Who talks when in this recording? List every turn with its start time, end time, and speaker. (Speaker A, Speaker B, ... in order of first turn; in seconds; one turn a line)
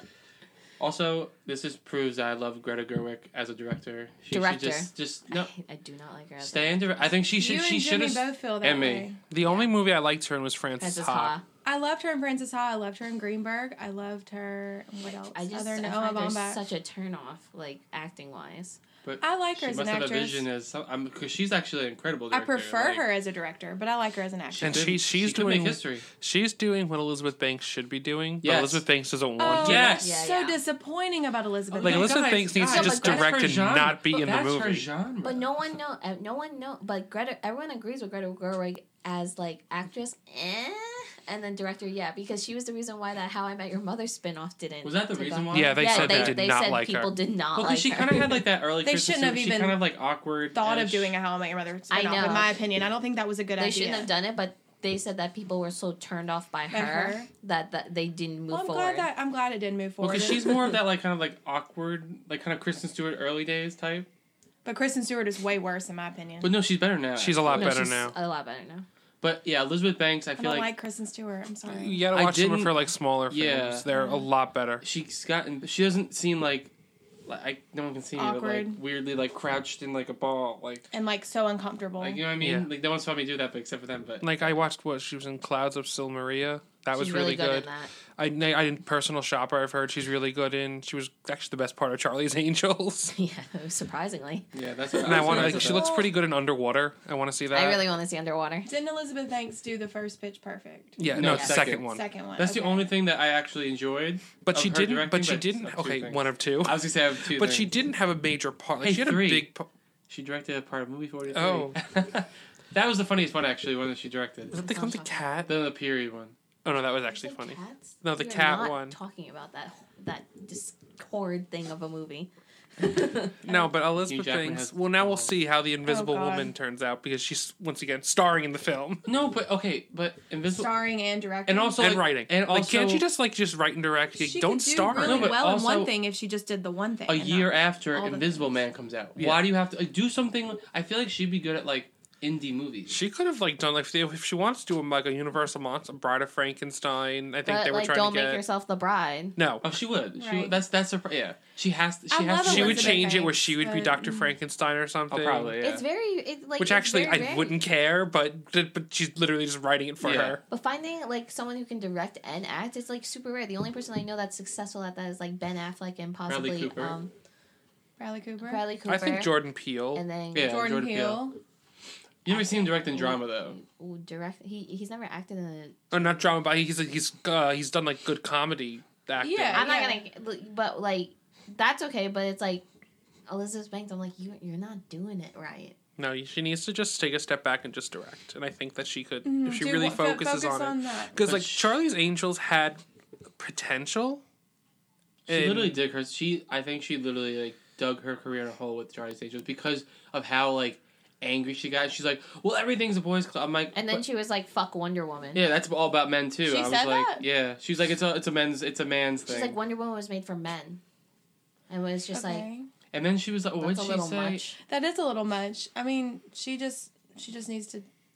Speaker A: 0.8-5.5
Speaker B: 4.3-7.2
Speaker A: 6.4-9.1
Speaker C: 7.3-9.2
Speaker D: 9.3-11.3
Speaker B: 9.3-9.7
Speaker B: 10.8-11.4
Speaker C: 11.6-16.6
Speaker B: 15.0-18.8
Speaker A: 19.0-23.1
Speaker C: 19.2-20.4
Speaker C: 22.3-24.9
Speaker A: 24.5-26.0
Speaker D: 24.6-30.0
Speaker A: 28.4-28.8
Speaker C: 29.4-33.4
Speaker A: 29.4-30.1
Speaker B: 30.0-30.6
Speaker A: 31.7-35.5
Speaker D: 31.8-34.9
Speaker B: 32.7-33.2
Speaker B: 35.2-48.3
Speaker A: 44.8-46.4
Speaker D: 45.5-47.1
Speaker A: 47.5-51.2
Speaker C: 48.8-49.8
Speaker C: 50.5-54.1
Speaker B: 51.9-52.6
Speaker B: 53.6-59.1
Speaker C: 56.7-57.3
Speaker C: 58.5-60.7
Speaker A: 60.0-64.1
Speaker C: 64.6-66.5
Speaker A: 66.4-67.8
Speaker D: 67.2-68.1
Speaker B: 67.5-68.8
Speaker A: 69.2-70.7
Speaker C: 70.4-72.0
Speaker D: 71.7-74.8
Speaker A: 72.1-73.8
Speaker C: 73.9-74.2
Speaker A: 74.8-76.7
Speaker A: 77.2-80.9
Speaker C: 78.2-78.8
Speaker C: 80.9-82.2
Speaker A: 82.0-84.2
Speaker D: 82.4-82.7
Speaker D: 84.2-93.1
Speaker B: 86.9-87.9
Speaker B: 93.1-95.4
Speaker A: 94.5-95.9
Speaker D: 95.0-97.8
Speaker C: 95.4-96.1
Speaker B: 97.5-98.7
Speaker C: 98.7-102.9
Speaker D: 101.0-102.0
Speaker A: 101.1-107.7
Speaker B: 101.2-101.6
Speaker D: 104.4-109.7
Speaker A: 108.8-109.5
Speaker A: 110.1-114.6
Speaker D: 111.3-111.8
Speaker D: 114.5-115.5
Speaker B: 114.5-115.4
Speaker A: 115.5-116.3
Speaker D: 116.6-119.0
Speaker B: 117.1-123.4
Speaker D: 123.4-129.1
Speaker A: 124.0-125.3
Speaker C: 125.8-126.5
Speaker A: 129.1-130.7
Speaker C: 130.5-131.9
Speaker A: 131.4-133.0
Speaker D: 131.8-135.4
Speaker C: 134.2-138.5
Speaker A: 135.0-135.9
Speaker A: 137.1-143.0
Speaker D: 139.2-139.4
Speaker D: 142.9-148.4
Speaker B: 147.4-149.4
Speaker D: 149.4-149.7
Speaker A: 149.6-153.2
Speaker C: 150.2-150.6
Speaker C: 152.1-154.3
Speaker D: 152.4-155.6
Speaker A: 155.1-155.8
Speaker B: 155.6-157.6
Speaker D: 156.6-160.4
Speaker A: 160.0-160.4
Speaker B: 160.5-167.1
Speaker A: 166.3-167.0
Speaker C: 168.0-168.6
Speaker B: 168.4-169.3
Speaker D: 168.8-170.0
Speaker B: 169.9-170.5
Speaker A: 170.3-171.3
Speaker C: 170.4-171.4
Speaker A: 172.2-173.6
Speaker B: 172.3-176.1
Speaker D: 175.9-179.7
Speaker C: 179.2-180.0
Speaker B: 179.5-182.6
Speaker B: 183.3-185.7
Speaker D: 186.0-192.8
Speaker C: 189.2-191.2
Speaker A: 191.2-191.7
Speaker D: 193.4-194.2
Speaker D: 195.3-195.8
Speaker A: 195.3-204.0
Speaker B: 203.7-205.4
Speaker A: 205.3-209.6
Speaker C: 206.4-207.2
Speaker B: 209.3-210.8
Speaker B: 211.7-212.5
Speaker C: 212.1-212.7
Speaker A: 212.9-214.4
Speaker B: 213.6-214.6
Speaker C: 214.7-217.8